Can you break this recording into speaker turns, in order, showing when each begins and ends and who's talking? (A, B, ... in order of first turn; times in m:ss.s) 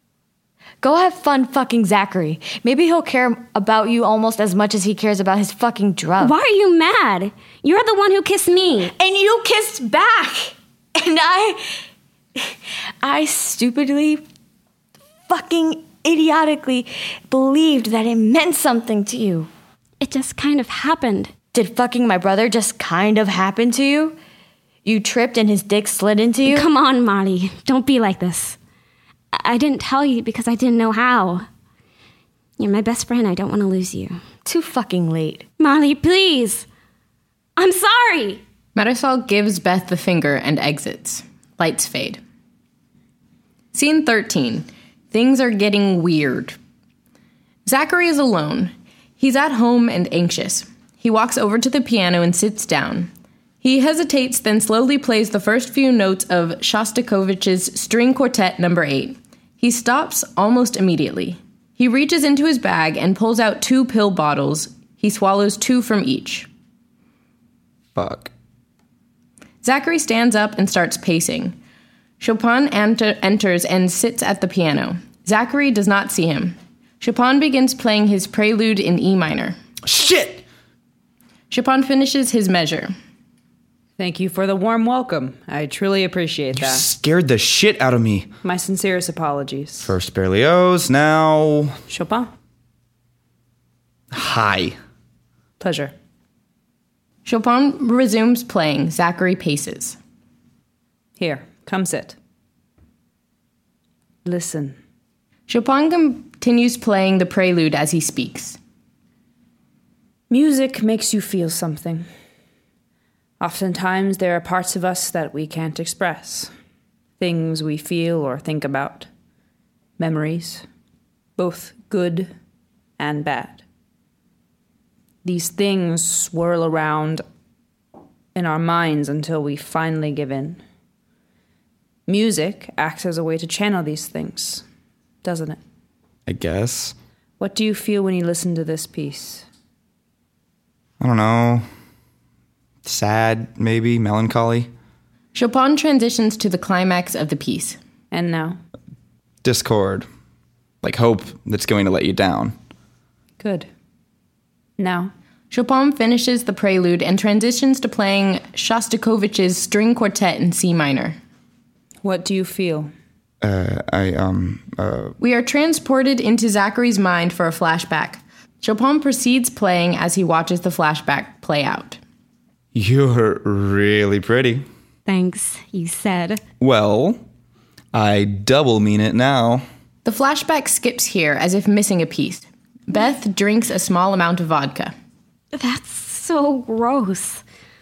0:00.8-0:06.3 A
0:06.2-0:08.9 B
0:09.0-0:11.6 A
0:13.0-0:14.2 A
0:15.3-0:19.5 A
0:20.0-0:21.3 B
0:21.5-0:24.2 A
0:24.8-0:26.7 A
0:26.5-0:28.6 B
0:29.3-0:31.5 B
0:32.6-0:34.2 B
0:34.4-0:35.4 A
0:35.6-0:36.6 B
0:37.6-0:38.4 B
0:38.8-0:42.2 C
0:43.7-0:46.6 C
0:47.6-0:53.1 C
0:53.6-1:06.5 C
1:08.0-1:08.3 D
1:09.6-1:11.6 C
1:12.2-1:19.6 C
1:19.8-1:20.4 D
1:21.5-1:22.9 C
1:24.0-1:26.8 E
1:26.6-1:28.3 D
1:28.4-1:29.9 E
1:29.8-1:31.8 D
1:31.9-1:32.3 E
1:34.1-1:34.8 D
1:35.6-1:35.9 E
1:37.3-1:40.0 C
1:41.2-1:42.2 E
1:44.3-1:44.8 E
1:45.5-1:48.6 C
1:50.3-1:52.1 E
1:53.4-1:56.5 E
1:57.2-1:59.1 E
2:00.0-2:00.6 E
2:01.4-2:02.3 E
2:03.0-2:03.6 E
2:05.2-2:07.2 E
2:08.4-2:10.6 E
2:12.1-2:14.6 E
2:15.2-2:15.6 E
2:16.3-2:17.0 D
2:17.4-2:19.4 E
2:21.0-2:21.7 D
2:22.8-2:24.7 D
2:25.4-2:27.8 C
2:28.1-2:28.6 E
2:29.4-2:30.1 D
2:30.8-2:32.6 D
2:33.4-2:33.7 E
2:34.8-2:35.1 E
2:35.5-2:41.2 C
2:42.0-2:42.9 E
2:43.4-2:45.1 D
2:45.2-2:52.0 C
2:52.7-2:54.6 D
2:55.1-2:56.4 B
2:56.6-2:57.2 D
2:57.9-2:59.6 D
3:00.0-3:04.9 C
3:05.5-3:07.4 B